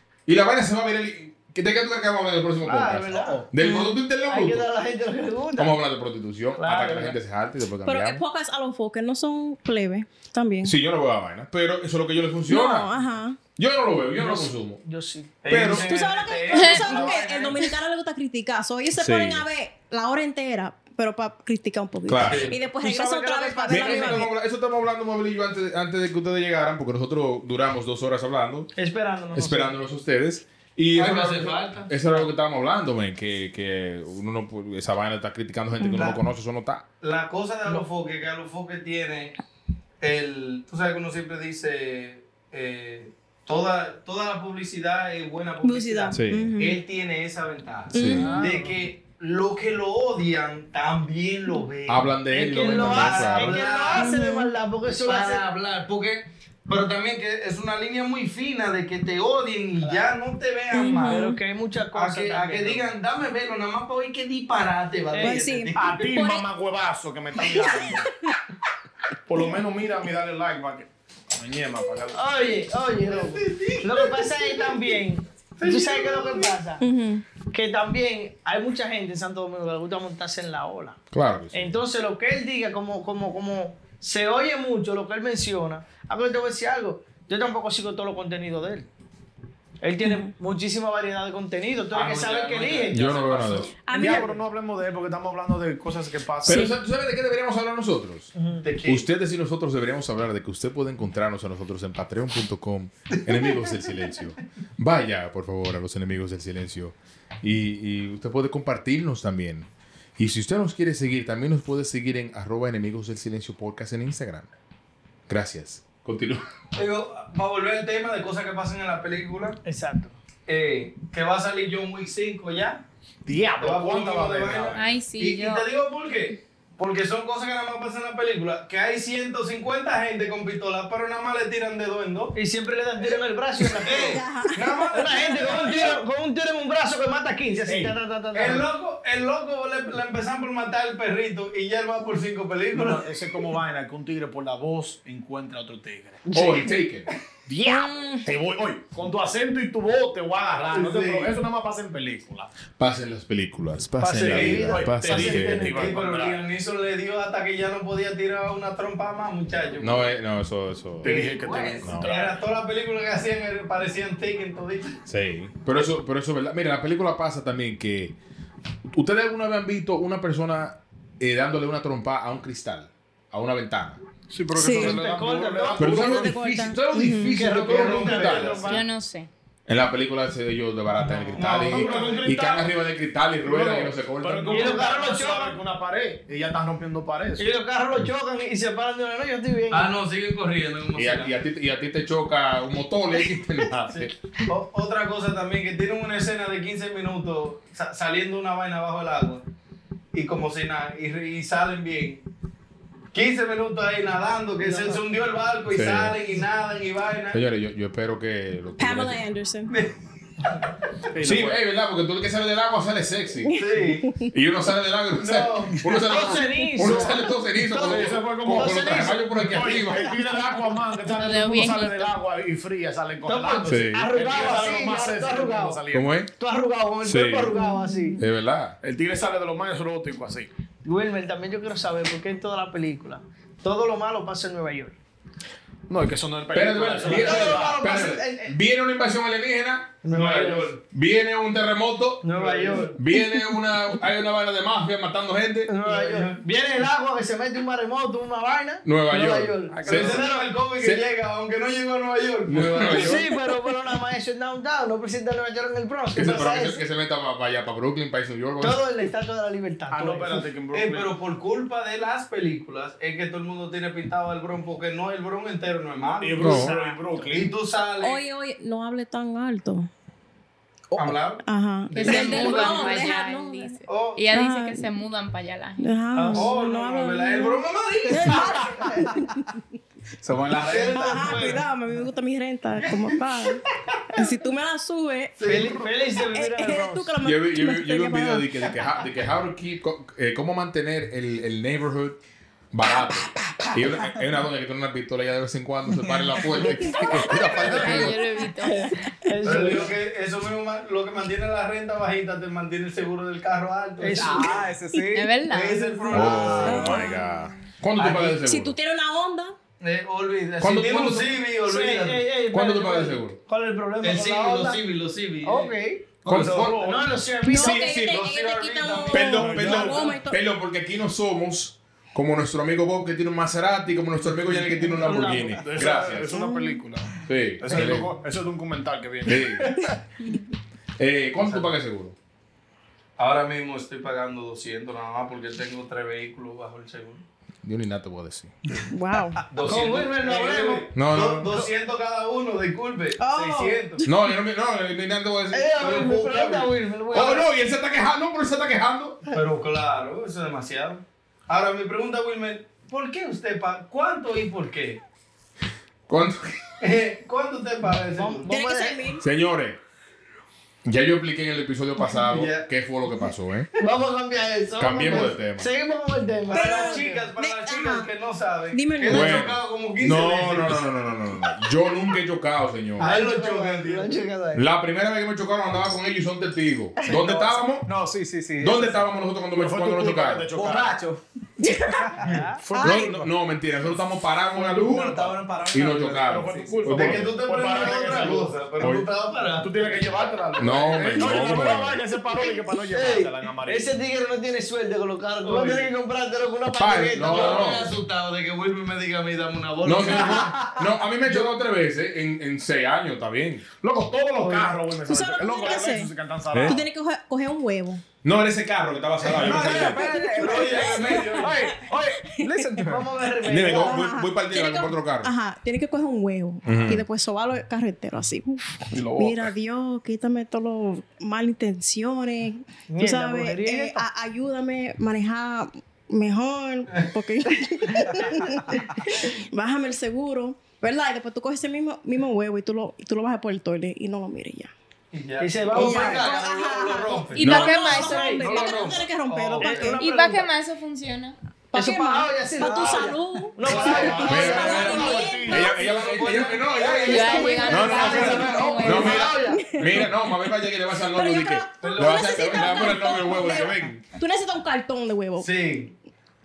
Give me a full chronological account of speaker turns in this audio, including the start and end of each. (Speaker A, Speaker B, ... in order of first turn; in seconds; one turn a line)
Speaker A: 0.2-4.7
Speaker B: 2.6-3.4
Speaker C: 3.6-4.0
Speaker B: 4.3-5.8
Speaker A: 5.6-8.2
Speaker B: 6.5-7.2
Speaker C: 7.8-10.8
Speaker A: 10.6-12.9
Speaker C: 12.5-13.4
Speaker A: 13.6-14.8
Speaker B: 14.2-15.4
Speaker D: 15.4-17.7
Speaker A: 15.5-15.9
Speaker C: 15.6-24.3
Speaker E: 16.5-17.1
Speaker A: 19.0-19.4
Speaker A: 22.1-22.5
Speaker D: 22.2-22.6
Speaker B: 22.8-24.3
Speaker A: 23.7-28.7
Speaker B: 28.8-29.8
Speaker A: 29.3-36.8
Speaker D: 30.9-32.2
Speaker C: 35.8-36.1
Speaker D: 37.0-39.4
Speaker D: 40.0-52.1
Speaker C: 45.6-46.8
Speaker A: 46.1-46.5
Speaker C: 47.9-48.5
Speaker A: 47.9-48.3
Speaker B: 48.1-48.8
Speaker A: 51.9-53.6
Speaker B: 52.3-55.5
Speaker D: 52.6-54.1
Speaker C: 53.9-54.5
Speaker D: 55.0-61.3
Speaker B: 59.8-60.1
Speaker C: 60.7-61.4
Speaker B: 61.0-62.9
Speaker D: 61.9-66.1
Speaker B: 65.1-65.5
Speaker C: 65.2-66.5
Speaker F: 65.7-68.1
Speaker C: 67.4-68.0
Speaker F: 69.3-72.2
Speaker B: 72.1-76.8
Speaker D: 73.1-74.8
Speaker D: 75.6-76.5
Speaker C: 76.8-77.2
Speaker B: 77.5-81.0
Speaker A: 81.1-81.8
Speaker B: 81.5-88.9
Speaker B: 89.8-93.1
Speaker C: 90.0-90.3
Speaker D: 91.9-93.8
Speaker A: 92.9-93.7
Speaker C: 93.8-94.3
Speaker F: 93.9-96.7
Speaker B: 93.9-94.3
Speaker A: 96.4-98.3
Speaker C: 96.5-96.7
Speaker B: 98.4-98.6
Speaker D: 98.6-99.1
Speaker A: 98.9-114.5
Speaker A: 115.3-116.4
Speaker D: 116.7-119.6
Speaker B: 119.6-120.1
Speaker D: 120.5-122.8
Speaker F: 123.2-124.8
Speaker D: 123.6-132.3
Speaker E: 124.7-125.7
Speaker B: 132.3-134.2
Speaker C: 133.8-135.9
Speaker D: 133.8-136.0
Speaker B: 134.9-138.7
Speaker F: 137.7-138.0
Speaker D: 138.3-143.1
Speaker F: 142.7-146.3
Speaker B: 146.3-146.7
Speaker A: 146.3-147.1
Speaker F: 147.5-152.5
Speaker C: 147.6-148.3
Speaker D: 150.7-151.3
Speaker A: 152.8-155.8
Speaker B: 154.0-155.9
Speaker F: 154.1-156.4
Speaker D: 154.3-160.1
Speaker A: 159.8-161.2
Speaker F: 161.0-162.3
Speaker D: 161.0-165.0
Speaker A: 161.8-162.1
Speaker A: 165.1-168.2
Speaker A: 168.9-174.0
Speaker F: 174.3-176.4
Speaker C: 174.5-175.0
Speaker B: 174.7-176.1
Speaker A: 175.8-178.7
Speaker C: 175.9-177.4
Speaker B: 177.3-178.8
Speaker D: 177.6-178.8
Speaker E: 178.6-179.3
Speaker A: 179.7-184.9
Speaker B: 181.0-182.1
Speaker D: 181.3-182.3
Speaker F: 181.4-182.7
Speaker F: 183.4-187.5
Speaker B: 184.5-185.6
Speaker B: 187.4-189.9
Speaker D: 189.7-191.3
Speaker A: 190.9-194.1
Speaker D: 193.9-199.4
Speaker D: 200.1-202.2
Speaker D: 203.1-207.4
Speaker B: 204.6-205.0
Speaker A: 205.7-206.2
Speaker A: 207.3-209.2
Speaker C: 208.8-209.7
Speaker F: 211.1-211.6
Speaker A: 211.2-213.6
Speaker C: 213.4-214.3
Speaker D: 213.6-214.1
Speaker A: 214.3-220.1
Speaker D: 215.2-216.0
Speaker B: 216.0-217.2
Speaker F: 217.7-226.1
Speaker B: 217.8-219.2
Speaker E: 221.1-222.1
Speaker B: 223.2-225.8
Speaker A: 223.7-224.1
Speaker D: 224.4-224.9
Speaker A: 225.9-226.3
Speaker B: 226.4-228.2
Speaker A: 227.0-227.6
Speaker C: 227.6-228.2
Speaker A: 228.2-228.8
Speaker F: 228.8-230.5
Speaker B: 230.8-235.0
Speaker F: 235.9-237.8
Speaker A: 236.5-240.0
Speaker B: 237.0-238.5
Speaker D: 237.1-238.1
Speaker B: 240.0-240.8
Speaker D: 240.1-240.8
Speaker A: 240.9-242.2
Speaker B: 242.2-242.9
Speaker D: 242.3-242.9
Speaker A: 243.0-245.7
Speaker B: 245.7-250.5
Speaker D: 245.8-246.4
Speaker A: 248.8-250.3
Speaker F: 249.7-250.3
Speaker D: 249.9-253.3
Speaker A: 250.8-251.0
Speaker A: 252.5-253.3
Speaker B: 252.9-256.8
Speaker A: 256.1-258.8
Speaker B: 258.6-260.4
Speaker F: 259.9-261.1
Speaker D: 260.7-268.2
Speaker F: 266.2-267.5
Speaker A: 266.4-266.7
Speaker B: 266.5-267.0
Speaker C: 268.0-269.9
Speaker G: 270.9-271.2
Speaker D: 270.9-273.1
Speaker C: 271.4-273.8
Speaker E: 271.9-275.9
Speaker D: 273.9-274.2
Speaker C: 274.3-274.9
Speaker C: 275.8-279.4
Speaker B: 276.1-276.5
Speaker D: 276.3-279.1
Speaker G: 280.2-281.2
Speaker D: 280.5-281.6
Speaker B: 280.7-281.6
Speaker C: 280.9-285.4
Speaker D: 282.8-283.1
Speaker D: 283.9-284.2
Speaker D: 285.4-286.0
Speaker B: 285.4-287.1
Speaker C: 286.2-288.7
Speaker A: 287.2-292.2
Speaker A: 292.7-298.2
Speaker G: 293.6-294.1
Speaker G: 296.0-297.6
Speaker E: 297.6-298.9
Speaker B: 298.6-299.9
Speaker D: 299.4-304.7
Speaker B: 304.0-304.6
Speaker G: 304.1-305.5
Speaker E: 305.1-305.8
Speaker D: 305.5-307.1
Speaker B: 305.8-306.4
Speaker A: 306.1-308.7
Speaker C: 306.6-307.5
Speaker D: 308.0-308.4
Speaker C: 308.4-309.6
Speaker D: 309.8-312.2
Speaker A: 310.6-311.4
Speaker B: 311.6-314.8
Speaker A: 312.5-313.4
Speaker D: 314.0-315.7
Speaker B: 315.4-316.1
Speaker A: 316.2-316.8
Speaker F: 316.2-317.1
Speaker D: 316.2-316.7
Speaker B: 316.6-317.9
Speaker C: 317.4-320.4
Speaker A: 317.5-318.2
Speaker D: 317.7-319.4
Speaker A: 319.1-326.4
Speaker F: 319.3-320.1
Speaker B: 325.0-325.6
Speaker F: 325.6-329.9
Speaker C: 326.3-326.8
Speaker A: 327.2-328.1
Speaker A: 329.2-329.8
Speaker A: 331.0-332.1
Speaker D: 331.4-331.7
Speaker D: 333.2-337.2
Speaker A: 337.6-338.5
Speaker C: 338.9-339.4
Speaker D: 339.5-344.1
Speaker B: 339.6-340.9
Speaker A: 340.9-341.5
Speaker C: 343.2-344.1
Speaker A: 344.0-345.7
Speaker B: 345.5-347.5
Speaker D: 345.8-346.7
Speaker A: 347.1-349.2
Speaker D: 349.3-355.0
Speaker A: 356.1-356.6
Speaker D: 356.8-358.5
Speaker B: 358.1-359.1
Speaker C: 358.5-359.2
Speaker A: 359.2-359.8
Speaker A: 360.8-363.7
Speaker D: 362.2-362.7
Speaker B: 363.8-367.2
Speaker A: 364.8-365.7
Speaker C: 366.5-368.1
Speaker D: 366.5-370.8
Speaker C: 368.7-369.5
Speaker A: 369.1-373.1
Speaker D: 373.0-374.1
Speaker B: 373.0-374.6
Speaker A: 374.6-377.9
Speaker G: 377.1-377.3
Speaker G: 377.9-379.1
Speaker A: 378.6-380.5
Speaker F: 379.5-381.0
Speaker G: 380.5-381.2
Speaker B: 382.2-382.6
Speaker F: 382.6-383.3
Speaker A: 382.8-387.4
Speaker D: 384.6-385.9
Speaker F: 384.6-388.7
Speaker D: 386.5-390.1
Speaker A: 388.8-389.1
Speaker F: 389.6-393.9
Speaker A: 390.6-392.0
Speaker D: 391.0-391.6
Speaker B: 392.9-397.9
Speaker F: 395.4-395.9
Speaker A: 396.7-397.9
Speaker D: 397.1-400.8
Speaker A: 399.8-403.6
Speaker F: 403.8-406.8
Speaker B: 404.4-404.7
Speaker C: 405.1-406.1
Speaker A: 406.5-406.8
Speaker C: 406.6-408.0
Speaker A: 408.2-410.1
Speaker F: 409.2-412.9
Speaker G: 409.4-410.8
Speaker C: 410.1-412.7
Speaker D: 410.3-411.6
Speaker G: 412.5-413.0
Speaker B: 412.8-414.0
Speaker A: 413.4-415.3
Speaker C: 413.7-434.7
Speaker A: 416.6-417.0
Speaker F: 418.9-419.5
Speaker B: 422.9-424.1
Speaker D: 435.1-437.6
Speaker B: 435.4-436.4
Speaker C: 435.7-440.0
Speaker E: 437.3-438.9
Speaker A: 437.4-437.8
Speaker B: 437.9-438.9
Speaker D: 438.4-439.9
Speaker B: 439.6-440.5
Speaker E: 440.0-441.4
Speaker C: 441.7-446.1
Speaker B: 441.7-445.3
Speaker F: 443.6-445.7
Speaker D: 443.7-448.5
Speaker A: 444.3-454.0
Speaker B: 446.7-449.6
Speaker C: 446.9-447.9
Speaker E: 447.1-449.4
Speaker C: 449.1-455.5
Speaker D: 451.8-453.1
Speaker D: 455.4-455.9